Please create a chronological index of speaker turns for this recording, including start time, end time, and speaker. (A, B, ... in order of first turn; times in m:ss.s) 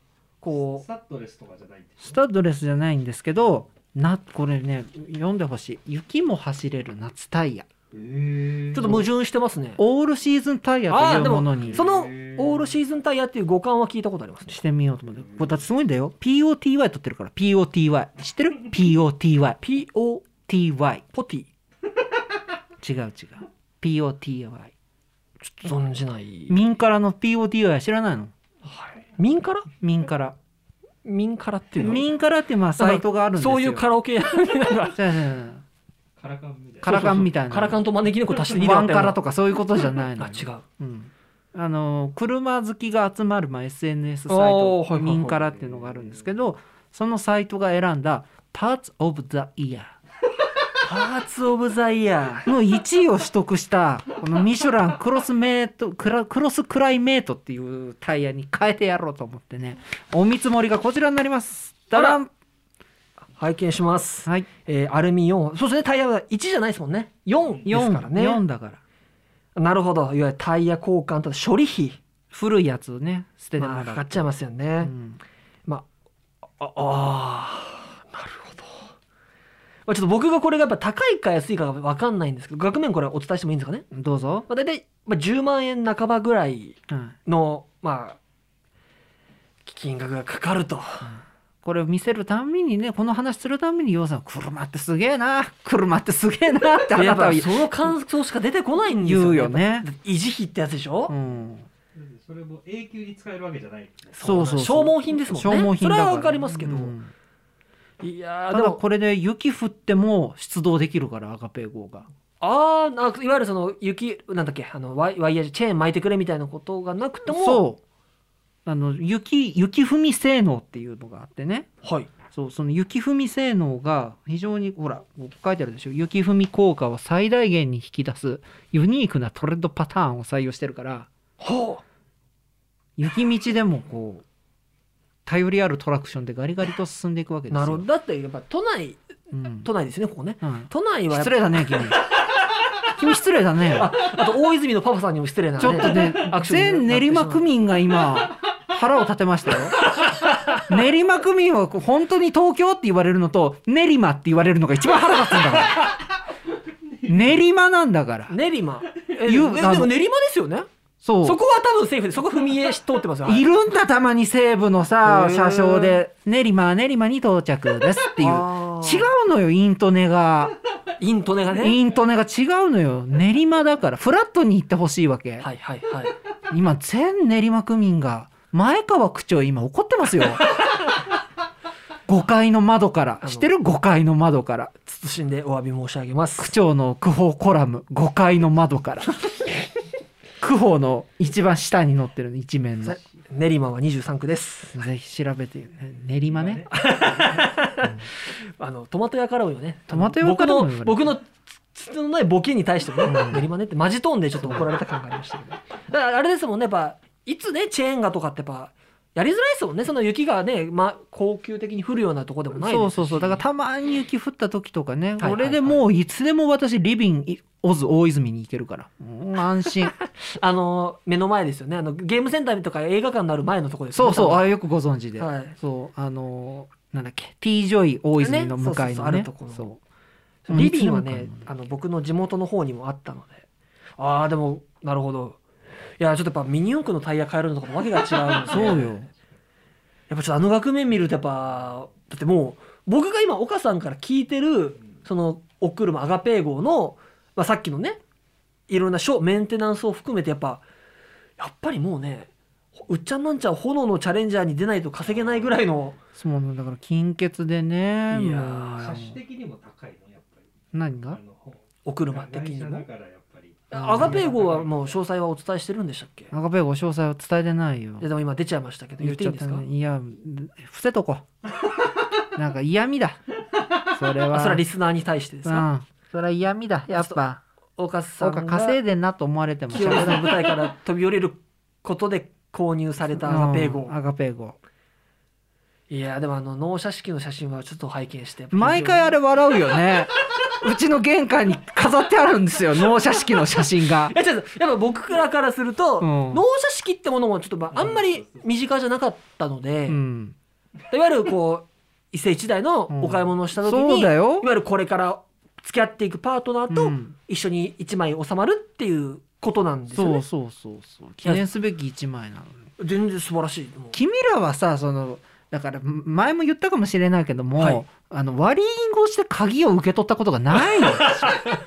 0:00.4-0:00.8 A
0:00.6-0:02.2 B
0:02.0-0:07.7 C
0:07.9-0:09.0 B
0:08.7-0:09.8 A
0:09.8-0:11.8 C
0:10.9-0:14.6 A
0:11.5-0:12.7 B
0:14.5-0:19.6 C
0:19.6-0:20.3 A
0:20.5-0:21.0 C
0:21.1-0:21.5 A
0:22.8-0:24.7 C
0:25.4-0:26.6 A
0:26.5-0:28.3 C
0:28.6-0:29.7 A
0:29.8-0:30.4 C
0:31.0-0:32.1 A
0:31.8-0:33.9 C
0:32.8-0:35.0 A
0:34.9-0:35.6 C
0:36.2-0:37.3 B
0:36.8-0:37.8 C
0:36.8-0:39.2 A
0:38.5-0:50.0 C
0:40.2-0:40.6 A
0:44.3-0:45.4 A
0:45.4-0:46.2 B
0:50.8-0:52.5 A
0:52.5-1:02.3 C
1:01.9-1:02.2 A
1:03.4-1:08.4 A
1:07.7-1:08.8 C
1:09.6-1:12.0 A
1:12.3-1:14.3 C
1:13.6-1:14.9 A
1:14.8-1:15.2 C
1:16.6-1:18.9 A
1:19.9-1:23.9 A
1:23.9-1:24.5 C
1:24.5-1:28.2 A
1:26.9-1:27.2 C
1:29.6-1:31.1 A
1:31.0-1:37.7 C
1:36.9-1:41.1 A
1:39.0-1:39.9 C
1:41.1-1:41.7 C
1:41.9-1:44.1 B
1:44.1-1:47.0 A
1:44.2-1:47.1 C
1:48.0-1:48.8 A
1:48.5-1:52.1 C
1:52.4-1:57.6 A
1:57.3-1:57.8 C
1:58.6-2:01.7 C
2:01.8-2:02.1 A
2:02.3-2:11.1 C
2:11.4-2:11.8 A
2:13.0-2:14.2 C
2:15.3-2:17.8 C
2:17.5-2:19.0 A
2:19.3-2:19.7 C
2:19.6-2:22.0 A
2:20.4-2:22.1 C
2:22.9-2:23.9 C
2:23.7-2:27.5 A
2:25.6-2:29.9 C
2:30.0-2:30.6 A
2:30.6-2:35.9 C
2:37.0-2:38.4 C
2:38.3-2:40.7 A
2:39.2-2:39.9 C
2:41.0-2:41.4 C
2:41.2-2:43.5 A
2:43.3-2:50.6 C
2:45.0-2:46.0 A
2:48.2-2:49.1 A
2:51.0-2:51.8 A
2:51.6-2:55.5 C
2:55.4-2:56.2 A
2:56.5-3:00.6 C
3:02.1-3:04.7 C
3:03.2-3:03.5 A
3:04.8-3:06.5 A
3:06.4-3:09.5 C
3:10.4-3:13.0 C
3:12.8-3:14.8 A
3:14.7-3:16.7 C
3:16.3-3:17.3 B
3:16.7-3:33.4 A
3:19.9-3:21.1 C
3:23.1-3:23.4 C
3:32.6-3:40.0 C
3:35.2-3:35.8 A
3:39.8-3:44.5 A
3:43.9-3:49.8 C
3:45.2-3:45.6 A
3:48.2-3:49.7 A
3:50.5-3:53.4 A
3:50.5-3:51.5 C
3:54.0-3:55.4 A
3:56.0-3:58.9 A
3:58.5-3:59.1 C
4:00.1-4:08.0 A
4:08.7-4:10.6 A
4:11.4-4:16.0 A
4:15.2-4:15.6 B
4:16.2-4:19.2 C
4:18.1-4:19.0 A
4:18.8-4:20.5 B
4:20.7-4:21.2 C
4:21.1-4:25.0 B
4:21.8-4:22.9 A
4:23.7-4:26.3 A
4:23.8-4:24.2 C
4:26.3-4:28.1 C
4:28.0-4:29.6 A
4:29.0-4:31.2 C
4:32.3-4:33.2 C
4:33.8-4:34.6 C
4:34.3-4:35.7 A
4:35.4-4:37.4 C
4:36.9-4:37.2 A
4:37.8-4:38.8 A
4:38.2-4:40.5 C
4:39.7-4:44.0 A
4:43.2-4:44.6 C
4:45.9-4:49.2 A
4:48.5-4:54.2 C
4:54.0-5:00.0 A
4:56.0-4:56.4 C
4:57.7-4:58.4 B
4:59.9-5:00.4 C
5:00.9-5:10.2 A
5:02.9-5:04.5 C
5:06.7-5:07.2 C
5:09.9-5:12.7 C
5:12.8-5:14.0 A
5:13.9-5:21.5 C
5:17.6-5:17.8 A